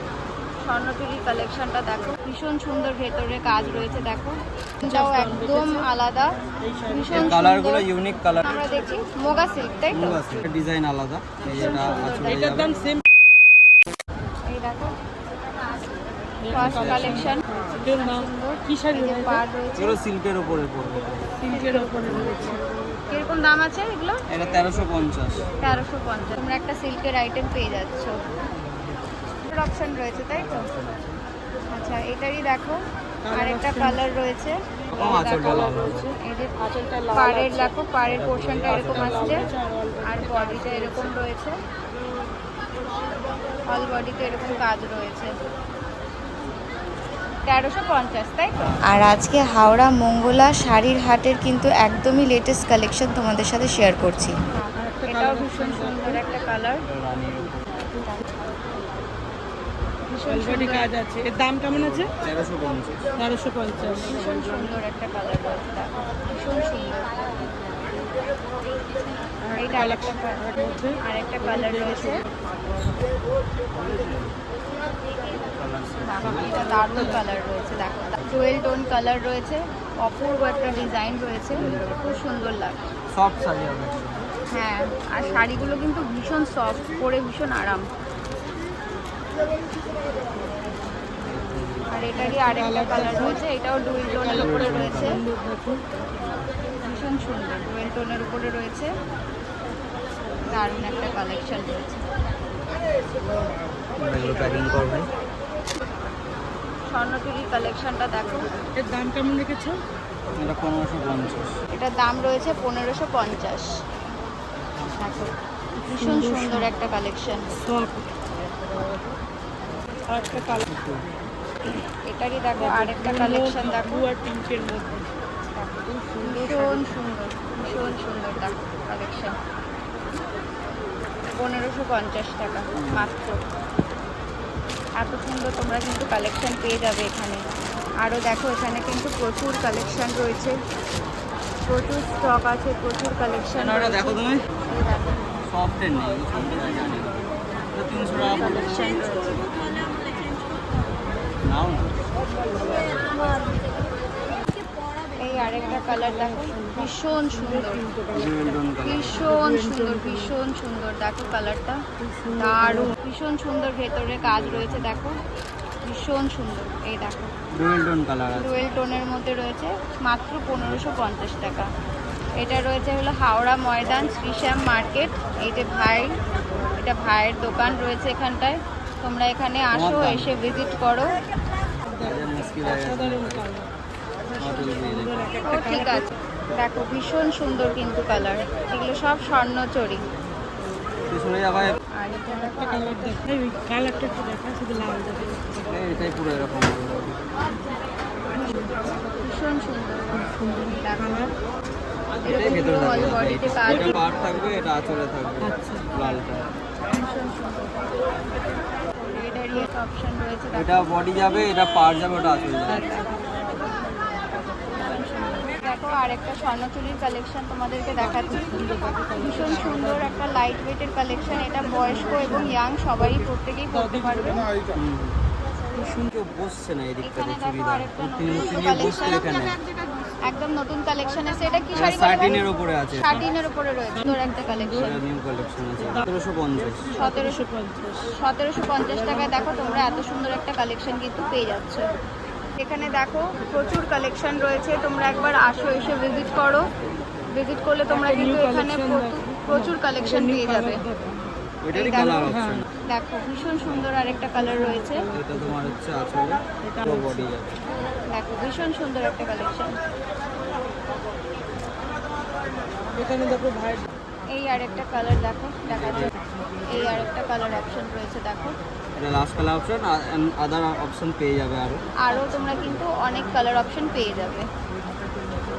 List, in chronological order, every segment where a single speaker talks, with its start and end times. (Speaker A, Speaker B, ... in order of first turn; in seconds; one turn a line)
Speaker A: 0.7-6.4
Speaker B: 3.5-4.2
Speaker C: 4.8-5.9
Speaker C: 6.6-7.4
Speaker A: 6.9-7.8
Speaker B: 7.1-8.5
Speaker A: 8.4-10.2
Speaker B: 9.9-12.7
Speaker C: 11.4-13.0
Speaker A: 11.4-12.7
Speaker A: 14.5-14.9
Speaker C: 16.4-19.5
Speaker A: 16.5-20.0
Speaker B: 16.5-17.3
Speaker B: 19.8-21.3
Speaker C: 21.4-22.6
Speaker A: 21.5-22.3
Speaker A: 23.1-24.2
Speaker B: 24.3-25.5
Speaker A: 25.6-28.1
Speaker A: 29.5-30.7
Speaker B: 30.7-31.2
Speaker A: 31.7-32.8
Speaker C: 33.2-34.0
Speaker A: 33.3-36.5
Speaker B: 34.9-36.1
Speaker C: 35.1-37.7
Speaker A: 37.1-39.5
Speaker B: 38.1-39.5
Speaker C: 38.7-41.1
Speaker A: 40.0-41.6
Speaker A: 43.7-45.3
Speaker A: 47.5-56.8
Speaker B: 48.6-49.1
Speaker C: 54.8-56.2
Speaker B: 56.9-57.8
Speaker A: 60.1-60.9
Speaker C: 60.3-62.1
Speaker B: 61.7-63.0
Speaker C: 63.2-64.2
Speaker A: 64.0-67.1
Speaker C: 69.4-72.2
Speaker A: 69.5-70.4
Speaker A: 71.0-72.2
Speaker B: 73.8-74.3
Speaker B: 75.5-76.5
Speaker A: 76.0-82.8
Speaker C: 76.3-77.2
Speaker B: 81.6-81.9
Speaker B: 83.1-84.3
Speaker A: 84.5-87.8
Speaker B: 91.3-91.9
Speaker A: 91.9-95.2
Speaker C: 92.2-93.4
Speaker C: 94.2-95.8
Speaker B: 94.4-95.2
Speaker A: 96.8-98.9
Speaker A: 100.5-102.0
Speaker B: 104.0-105.1
Speaker A: 106.9-108.5
Speaker C: 108.8-109.8
Speaker B: 110.4-111.6
Speaker A: 111.7-113.7
Speaker A: 115.0-115.3
Speaker A: 115.9-117.5
Speaker C: 115.9-116.7
Speaker C: 117.6-118.0
Speaker C: 120.1-120.7
Speaker B: 120.7-121.0
Speaker A: 122.1-124.0
Speaker C: 122.6-125.1
Speaker A: 125.5-129.3
Speaker C: 125.9-126.9
Speaker A: 131.4-133.4
Speaker B: 132.7-133.1
Speaker A: 135.0-137.4
Speaker A: 138.0-140.6
Speaker A: 141.7-144.9
Speaker B: 143.6-144.4
Speaker B: 145.5-147.2
Speaker B: 147.7-148.8
Speaker A: 148.3-149.4
Speaker B: 151.4-152.1
Speaker A: 155.2-157.8
Speaker C: 155.4-158.6
Speaker B: 158.1-159.2
Speaker A: 158.8-161.8
Speaker C: 159.2-160.3
Speaker C: 162.0-162.9
Speaker A: 162.4-165.2
Speaker B: 164.2-165.0
Speaker A: 165.8-167.3
Speaker B: 167.5-168.6
Speaker A: 168.4-171.7
Speaker A: 172.4-176.1
Speaker A: 176.8-181.2
Speaker B: 179.7-180.3
Speaker C: 181.9-183.7
Speaker B: 182.0-183.5
Speaker B: 184.4-185.3
Speaker C: 184.6-186.0
Speaker A: 185.4-190.0
Speaker B: 191.1-191.8
Speaker A: 192.0-193.2
Speaker C: 192.5-195.7
Speaker B: 195.7-197.2
Speaker A: 199.2-201.3
Speaker C: 200.2-201.3
Speaker A: 202.2-204.0
Speaker B: 202.2-206.4
Speaker C: 203.7-203.9
Speaker C: 205.4-205.9
Speaker A: 206.9-207.9
Speaker A: 209.0-211.4
Speaker B: 210.5-212.8
Speaker A: 212.7-213.2
Speaker A: 214.3-218.5
Speaker C: 218.0-220.1
Speaker A: 219.2-224.4
Speaker C: 222.0-222.6
Speaker C: 223.7-224.4
Speaker B: 224.7-225.2
Speaker B: 226.0-229.6
Speaker A: 227.0-229.2
Speaker A: 230.2-235.0
Speaker B: 231.8-233.1
Speaker C: 234.0-234.9
Speaker B: 234.8-236.9
Speaker C: 236.7-238.1
Speaker A: 236.9-237.4
Speaker A: 238.1-241.8
Speaker C: 239.0-239.9
Speaker A: 242.6-246.7
Speaker A: 247.3-250.8
Speaker C: 247.9-251.1
Speaker B: 251.6-252.7
Speaker A: 251.7-252.3
Speaker C: 252.2-252.6
Speaker A: 252.9-255.1
Speaker C: 254.4-255.5
Speaker B: 255.1-257.6
Speaker C: 256.6-257.3
Speaker A: 258.1-259.8
Speaker C: 263.0-263.9
Speaker A: 264.3-266.1
Speaker B: 265.6-266.1
Speaker A: 266.7-268.6
Speaker B: 269.0-271.8
Speaker A: 272.0-274.5